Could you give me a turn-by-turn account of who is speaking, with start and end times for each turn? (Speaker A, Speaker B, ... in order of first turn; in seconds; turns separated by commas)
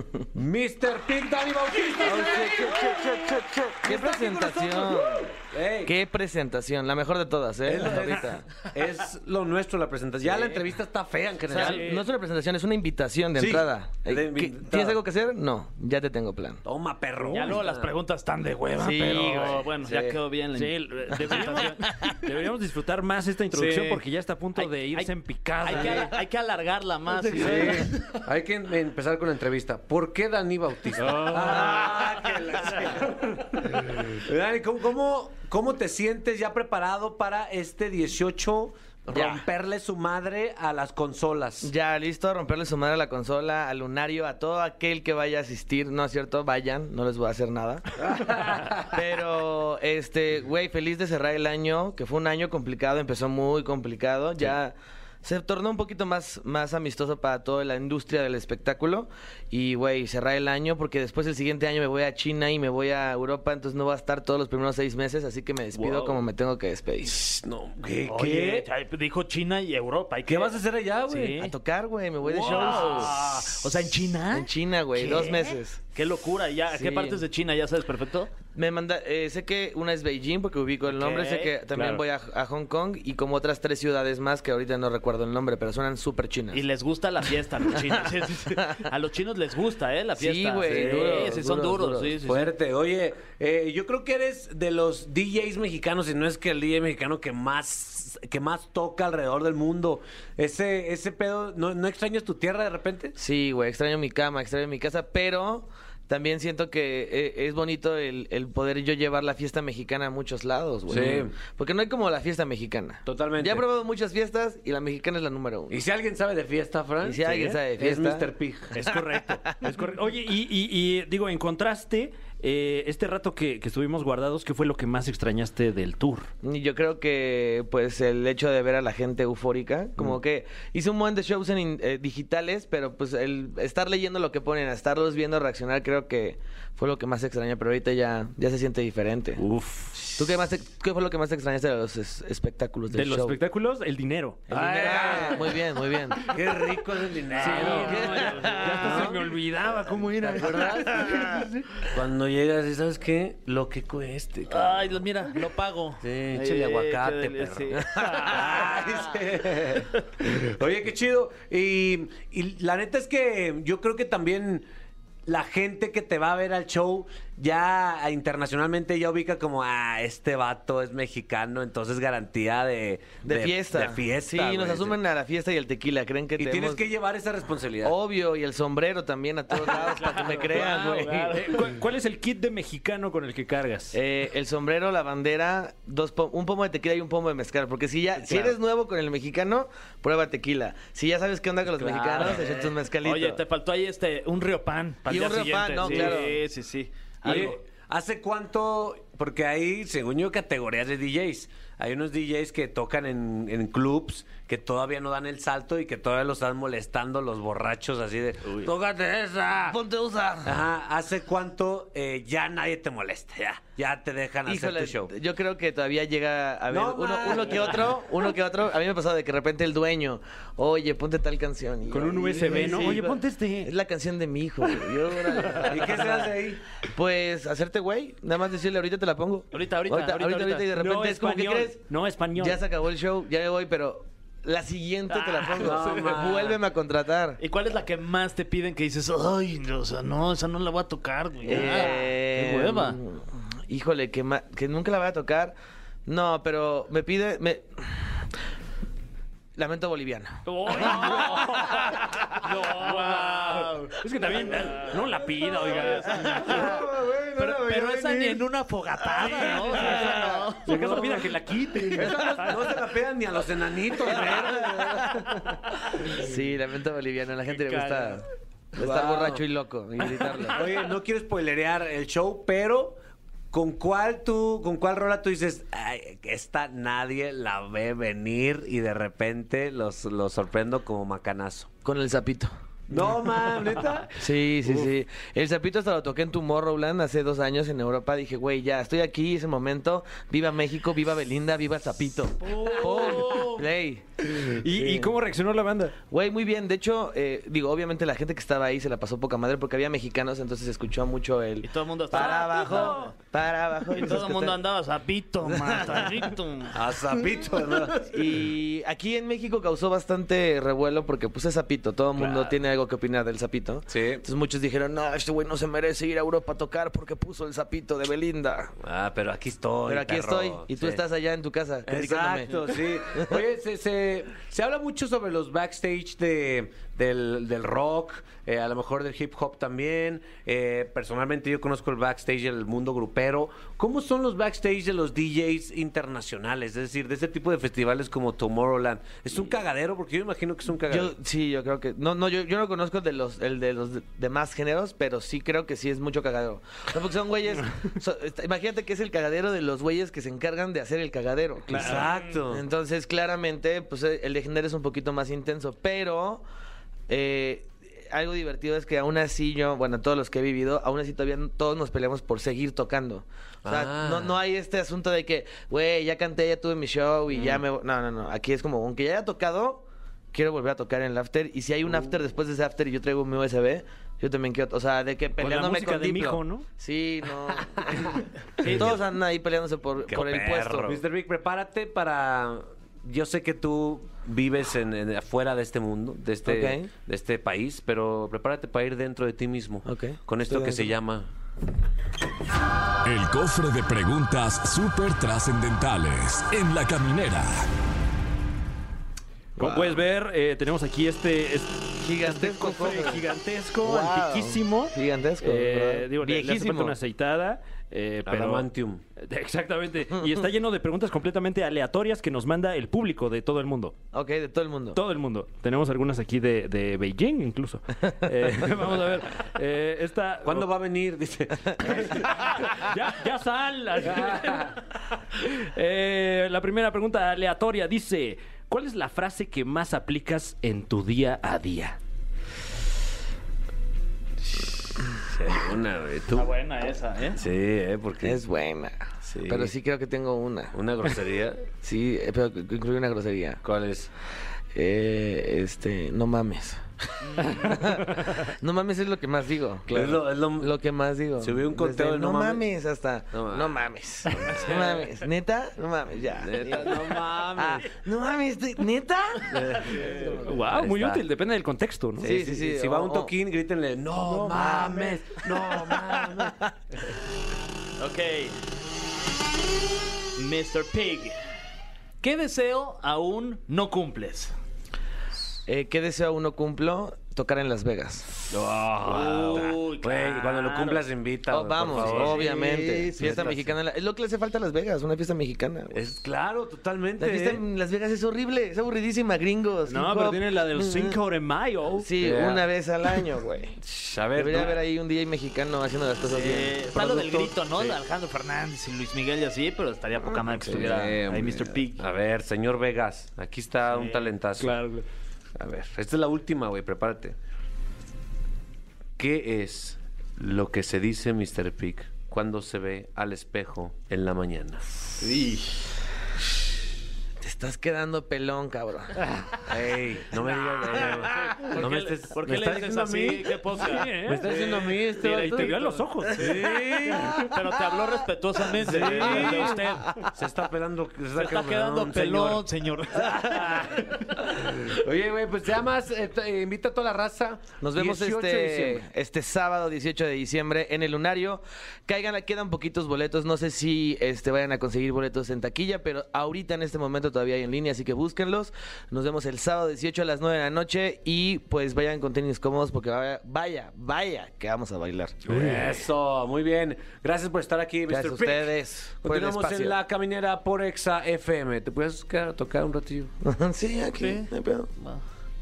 Speaker A: 0.3-6.0, Speaker B: 2.0-8.4, Speaker A: 7.6-11.9, Speaker C: 11.5-11.8, Speaker B: 11.5-16.6, Speaker D: 11.6-12.0, Speaker A: 13.4-15.0, Speaker A: 16.6-17.9, Speaker C: 17.2-22.2, Speaker B: 18.8-19.7, Speaker A: 19.1-20.1, Speaker D: 20.5-26.1, Speaker C: 23.5-24.0, Speaker C: 24.6-28.1, Speaker A: 27.3-41.7, Speaker D: 31.0-31.8, Speaker C: 31.2-32.0, Speaker B: 39.1-39.4, Speaker B: 41.6-47.9, Speaker A: 48.0-48.9, Speaker B: 48.8-67.2, Speaker D: 65.7-66.2, Speaker A: 67.0-68.7, Speaker C: 68.0-71.5, Speaker A: 70.2-71.4, Speaker B: 71.3-73.1, Speaker C: 72.3-78.3, Speaker D: 72.3-73.1, Speaker B: 74.3-75.8, Speaker B: 76.7-77.2, Speaker B: 78.5-86.6, Speaker C: 80.9-81.5, Speaker D: 81.7-82.0, Speaker C: 86.5-92.5, Speaker B: 88.4-88.8, Speaker B: 90.2-92.2, Speaker A: 90.6-91.3, Speaker A: 92.2-103.2, Speaker B: 103.2-115.8, Speaker A: 110.9-111.3, Speaker A: 113.0-113.6, Speaker A: 115.7-118.9, Speaker B: 117.0-118.3, Speaker D: 118.7-126.3, Speaker B: 126.4-139.4, Speaker D: 139.4-140.4, Speaker B: 140.2-143.4, Speaker D: 142.9-144.4, Speaker B: 144.5-146.3, Speaker A: 144.5-145.6, Speaker A: 146.1-149.2, Speaker D: 147.3-151.4, Speaker C: 147.4-148.1, Speaker B: 147.6-149.1, Speaker A: 150.3-155.4, Speaker B: 150.7-151.2, Speaker C: 154.5-159.0, Speaker A: 156.0-164.7, Speaker B: 157.9-158.2, Speaker D: 158.1-158.6, Speaker A: 165.2-175.0, Speaker B: 173.2-176.8, Speaker A: 176.4-177.9, Speaker B: 177.8-181.4, Speaker C: 180.0-181.6, Speaker D: 180.1-184.0, Speaker B: 183.9-193.4, Speaker C: 191.9-197.6, Speaker B: 195.1-196.4, Speaker D: 195.8-196.3, Speaker A: 197.2-209.8, Speaker B: 209.7-210.6, Speaker A: 210.4-215.1, Speaker B: 214.4-226.3, Speaker A: 216.7-218.0, Speaker D: 221.9-223.7, Speaker D: 225.4-225.9, Speaker A: 225.6-226.6, Speaker B: 226.8-231.8, Speaker C: 229.5-230.7, Speaker D: 230.7-232.6, Speaker B: 232.4-237.4, Speaker D: 235.2-235.9, Speaker A: 235.6-236.6, Speaker C: 237.4-243.0, Speaker B: 241.4-248.2, Speaker B: 249.6-250.5, Speaker D: 250.4-256.7, Speaker C: 250.8-251.6, Speaker C: 252.7-254.9, Speaker C: 255.6-256.7, Speaker A: 256.3-258.4, Speaker C: 257.4-261.0, Speaker D: 259.3-262.7, Speaker A: 260.6-265.6, Speaker B: 266.1-270.6, Speaker D: 267.6-268.0, Speaker A: 268.7-269.4, Speaker A: 270.5-273.0, Speaker A: 273.5-281.7, Speaker B: 281.8-282.5, Speaker A: 282.9-284.1, Speaker B: 284.2-294.1, Speaker C: 292.6-293.6, Speaker D: 292.6-293.4, Speaker D: 294.2-295.9, Speaker B: 294.7-295.1, Speaker B: 296.0-304.6, Speaker C: 301.6-303.1, Speaker D: 302.2-303.0, Speaker C: 303.9-306.8, Speaker B: 305.4-306.3, Speaker A: 306.7-308.1, Speaker B: 308.1-318.7, Speaker A: 312.1-312.6, Speaker A: 313.9-314.2, Speaker A: 318.8-321.0, Speaker B: 319.9-322.6, Speaker A: 321.8-341.1, Speaker B: 340.9-356.4, Speaker D: 351.7-352.1, Speaker A: 351.7-352.6, Speaker B: 357.1-381.0, Speaker A: 363.6-364.4, Speaker D: 375.4-376.6, Speaker C: 378.6-378.9, Speaker A: 380.1-391.3, Speaker B: 386.4-386.9, Speaker B: 389.8-390.9, Speaker E: 393.0-397.7, Speaker D: 399.6-413.9, Speaker B: 399.6-400.0, Speaker B: 402.0-403.2, Speaker B: 403.8-406.9, Speaker A: 408.2-409.0, Speaker B: 414.1-415.0, Speaker D: 414.9-420.7, Speaker A: 420.4-422.7, Speaker D: 421.8-432.0, Speaker A: 424.0-424.8, Speaker A: 435.2-436.5, Speaker C: 436.3-437.4, Speaker A: 437.3-438.4, Speaker B: 438.2-440.8, Speaker A: 439.3-439.7, Speaker A: 440.7-441.7, Speaker B: 441.8-443.6, Speaker A: 443.6-444.1, Speaker B: 444.7-446.8, Speaker C: 447.2-447.8, Speaker B: 447.5-459.8, Speaker A: 449.9-450.8, Speaker A: 451.4-452.6, Speaker A: 453.3-455.1, Speaker A: 456.4-457.8, Speaker A: 459.5-461.2, Speaker C: 459.8-460.3, Speaker D: 460.4-462.3, Speaker A: 462.2-467.1, Speaker B: 462.2-463.3, Speaker C: 464.4-464.8, Speaker B: 464.5-465.2, Speaker C: 468.0-468.6, Speaker C: 470.4-471.4, Speaker C: 472.2-474.5, Speaker B: 475.6-478.3, Speaker A: 478.5-482.5, Speaker C: 479.0-481.0, Speaker B: 481.5-486.1, Speaker C: 481.9-483.7, Speaker A: 483.2-483.6, Speaker A: 485.9-487.6, Speaker B: 487.2-491.1, Speaker D: 489.8-492.1, Speaker B: 492.0-493.8, Speaker A: 492.2-492.6, Speaker A: 493.8-494.8, Speaker B: 494.3-497.5, Speaker C: 496.3-502.0, Speaker A: 500.5-504.8, Speaker C: 503.9-504.2, Speaker D: 504.6-505.0, Speaker A: 505.6-507.4, Speaker A: 509.2-515.2, Speaker B: 517.4-519.2, Speaker A: 519.7-527.6, Speaker C: 520.8-524.1, Speaker D: 523.8-526.6, Speaker B: 526.4-527.5, Speaker C: 527.3-530.1, Speaker A: 528.8-539.0, Speaker B: 529.1-529.5, Speaker C: 531.3-533.9, Speaker B: 537.8-555.4, Speaker D: 555.5-555.9, Speaker A: 555.5-563.3, Speaker B: 558.1-560.0, Speaker B: 563.4-564.9, Speaker C: 564.2-565.2